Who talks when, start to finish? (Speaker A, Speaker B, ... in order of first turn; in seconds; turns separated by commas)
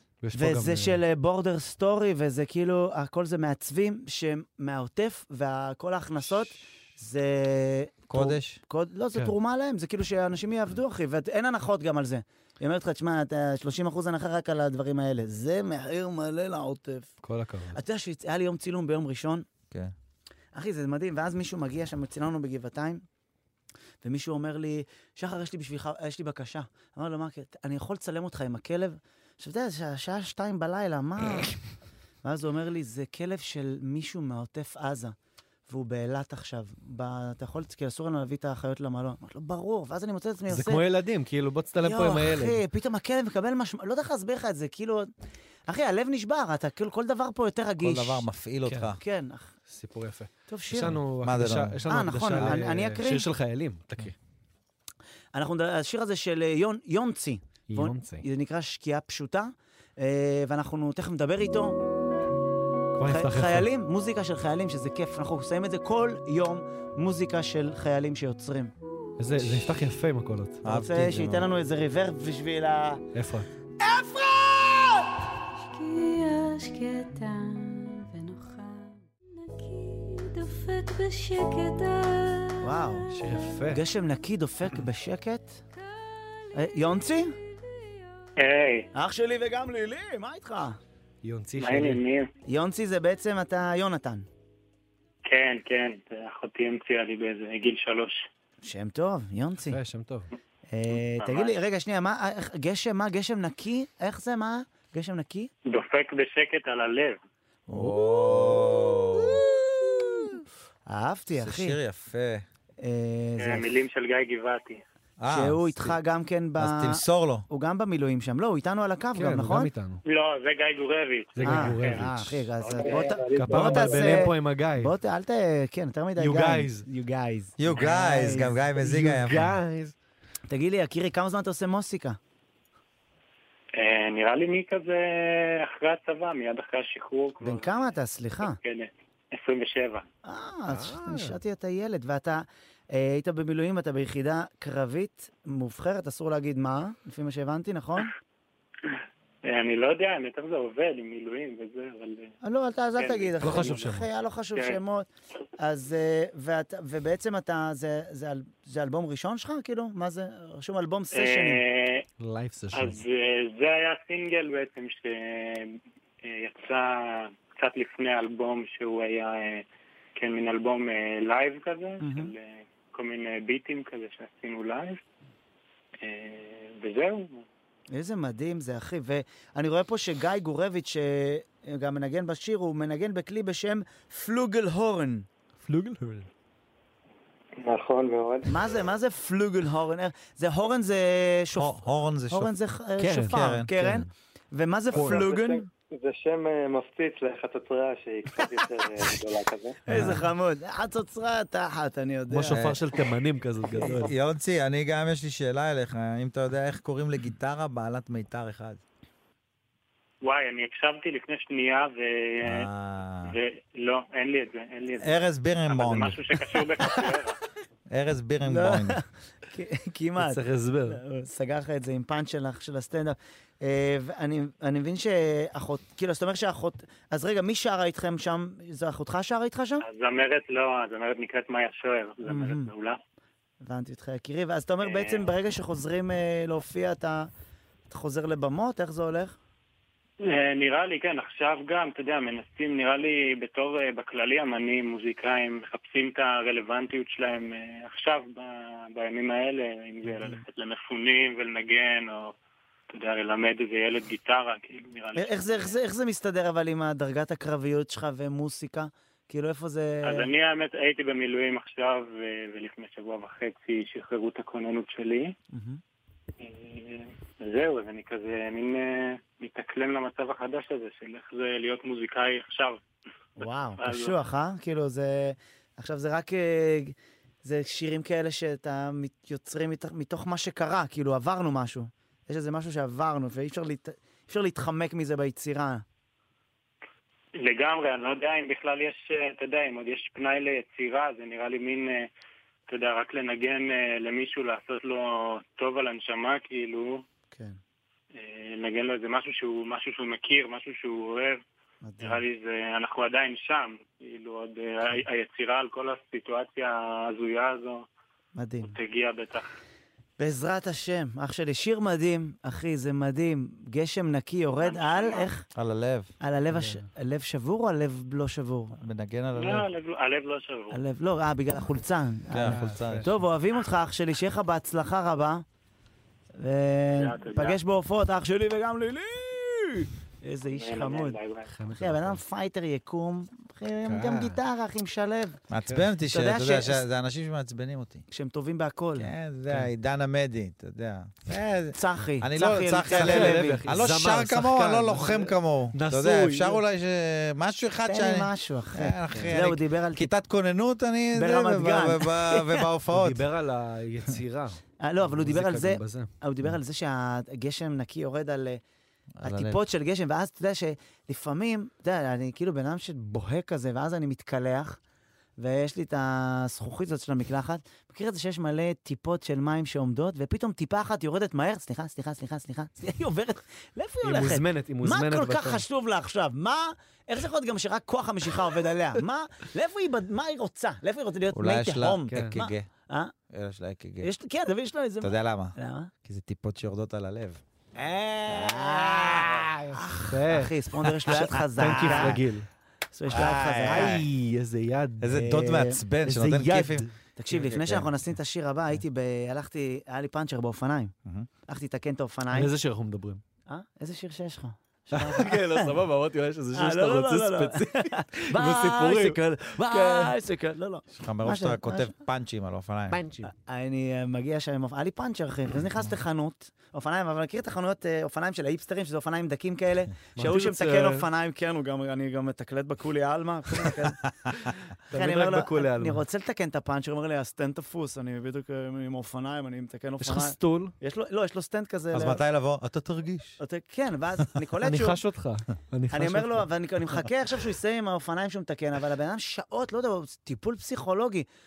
Speaker A: 0.2-1.0, Speaker B: 0.3-17.1, Speaker C: 8.1-8.6, Speaker A: 17.2-17.8, Speaker B: 17.7-19.5, Speaker B: 20.5-23.0, Speaker B: 24.0-31.6, Speaker B: 32.2-35.1, Speaker B: 35.7-40.8, Speaker A: 40.5-42.6, Speaker B: 41.8-45.1, Speaker B: 45.7-48.2, Speaker C: 47.8-49.0, Speaker A: 48.7-48.9, Speaker B: 48.9-49.5, Speaker A: 49.7-54.1, Speaker B: 50.5-51.0, Speaker C: 50.7-51.8, Speaker B: 51.9-53.3, Speaker B: 55.3-61.8, Speaker A: 57.7-58.2, Speaker A: 62.9-63.7, Speaker B: 63.0-68.7, Speaker A: 69.2-70.7, Speaker C: 70.6-71.5, Speaker B: 70.7-73.0, Speaker A: 73.1-73.5, Speaker B: 73.8-75.1, Speaker D: 75.6-83.1, Speaker B: 82.6-83.1, Speaker A: 83.1-83.8, Speaker B: 83.7-85.6, Speaker D: 86.0-87.0, Speaker B: 86.5-87.3, Speaker E: 88.4-88.9, Speaker B: 88.9-90.8, Speaker A: 91.2-92.0, Speaker E: 91.6-92.3, Speaker B: 92.5-94.2, Speaker E: 95.2-98.3, Speaker B: 98.6-99.8, Speaker A: 99.7-100.3, Speaker B: 100.7-105.5, Speaker E: 101.2-101.5, Speaker E: 105.7-107.2, Speaker B: 107.7-108.8, Speaker C: 107.7-109.4, Speaker B: 109.3-110.3, Speaker B: 110.9-111.8, Speaker C: 111.3-112.4, Speaker B: 112.8-113.7, Speaker E: 113.4-114.8, Speaker C: 115.2-116.0, Speaker B: 115.3-119.7, Speaker C: 116.6-117.5, Speaker A: 119.1-120.0, Speaker E: 120.0-122.0, Speaker A: 121.3-122.5, Speaker B: 121.4-128.5, Speaker E: 122.6-124.1, Speaker A: 123.3-124.9, Speaker A: 126.2-126.8, Speaker C: 127.6-129.6, Speaker A: 128.8-129.9, Speaker B: 130.5-132.2, Speaker E: 133.8-140.0, Speaker B: 137.4-138.6, Speaker B: 140.2-148.1, Speaker A: 140.7-141.4, Speaker E: 148.8-152.3, Speaker B: 152.4-161.6, Speaker E: 153.0-153.9, Speaker A: 153.4-154.1, Speaker E: 161.1-162.0, Speaker A: 162.2-163.0, Speaker E: 162.7-169.6, Speaker E: 170.2-175.0, Speaker B: 172.0-172.3, Speaker E: 176.0-177.4, Speaker B: 177.9-185.3, Speaker A: 185.6-186.3, Speaker F: 187.6-188.5, Speaker B: 188.4-195.7, Speaker C: 191.6-192.5, Speaker A: 193.0-194.1, Speaker C: 193.3-193.7, Speaker A: 194.9-195.3, Speaker F: 194.9-199.8, Speaker B: 199.9-203.1, Speaker A: 199.9-200.2, Speaker A: 202.3-204.1, Speaker C: 202.5-202.8, Speaker C: 203.9-208.8, Speaker E: 210.2-212.7, Speaker C: 212.4-213.3, Speaker E: 213.2-215.2, Speaker C: 215.0-216.6, Speaker E: 215.7-217.4, Speaker C: 217.9-219.0, Speaker B: 218.4-229.8, Speaker A: 220.2-221.0, Speaker E: 229.8-233.0, Speaker B: 232.2-232.7, Speaker B: 233.6-237.3, Speaker E: 234.8-235.2, Speaker B: 237.9-239.3, Speaker E: 240.2-252.3, Speaker E: 252.9-255.6, Speaker B: 255.2-260.3, Speaker E: 260.0-265.3, Speaker B: 265.5-265.8, Speaker E: 266.4-272.8, Speaker E: 273.4-274.2, Speaker B: 273.4-285.8, Speaker E: 287.4-292.1, Speaker E: 292.7-297.0, Speaker B: 297.3-297.6, Speaker E: 298.1-301.4, Speaker B: 301.8-302.2, Speaker E: 302.0-307.8, Speaker B: 308.3-308.7, Speaker E: 308.6-309.5, Speaker B: 310.2-315.4, Speaker E: 314.6-315.3, Speaker C: 315.5-316.1, Speaker B: 316.2-318.8, Speaker A: 316.5-316.9, Speaker C: 318.8-319.7, Speaker E: 319.3-320.8, Speaker B: 320.7-325.4, Speaker C: 322.3-323.1, Speaker A: 322.4-323.1, Speaker B: 326.4-331.2, Speaker E: 326.9-327.6, Speaker E: 330.5-331.5, Speaker A: 331.5-332.2, Speaker B: 331.7-335.4, Speaker A: 333.9-334.4, Speaker C: 335.5-338.0, Speaker B: 336.1-336.8, Speaker B: 338.1-339.1, Speaker C: 338.9-353.2, Speaker B: 341.7-343.7, Speaker A: 342.9-346.6, Speaker B: 347.9-350.1, Speaker A: 349.1-349.4, Speaker B: 351.1-352.6, Speaker A: 352.9-356.1, Speaker B: 354.8-358.6, Speaker C: 359.2-359.6, Speaker B: 359.2-364.8, Speaker B: 365.4-383.1, Speaker A: 374.0-375.6, Speaker C: 381.3-382.7, Speaker A: 382.1-382.4, Speaker C: 383.3-384.1, Speaker B: 384.0-385.9, Speaker C: 385.0-387.4, Speaker B: 387.7-392.2, Speaker A: 390.1-390.5, Speaker C: 391.1-392.2, Speaker A: 391.1-392.5, Speaker B: 392.9-394.0, Speaker C: 393.1-394.0, Speaker A: 393.6-395.2, Speaker C: 395.0-397.9, Speaker B: 395.1-395.8, Speaker A: 396.0-396.9, Speaker B: 397.2-400.9, Speaker B: 401.5-402.5, Speaker A: 402.3-403.2, Speaker B: 403.5-405.8, Speaker A: 404.9-410.1, Speaker B: 406.5-411.9, Speaker C: 410.9-413.0, Speaker A: 412.9-413.3, Speaker B: 413.2-424.1, Speaker A: 420.1-421.1, Speaker A: 424.9-426.0, Speaker B: 424.9-432.2, Speaker A: 430.0-430.7, Speaker C: 431.9-433.4, Speaker B: 433.4-435.0, Speaker A: 434.6-436.5, Speaker B: 435.9-441.3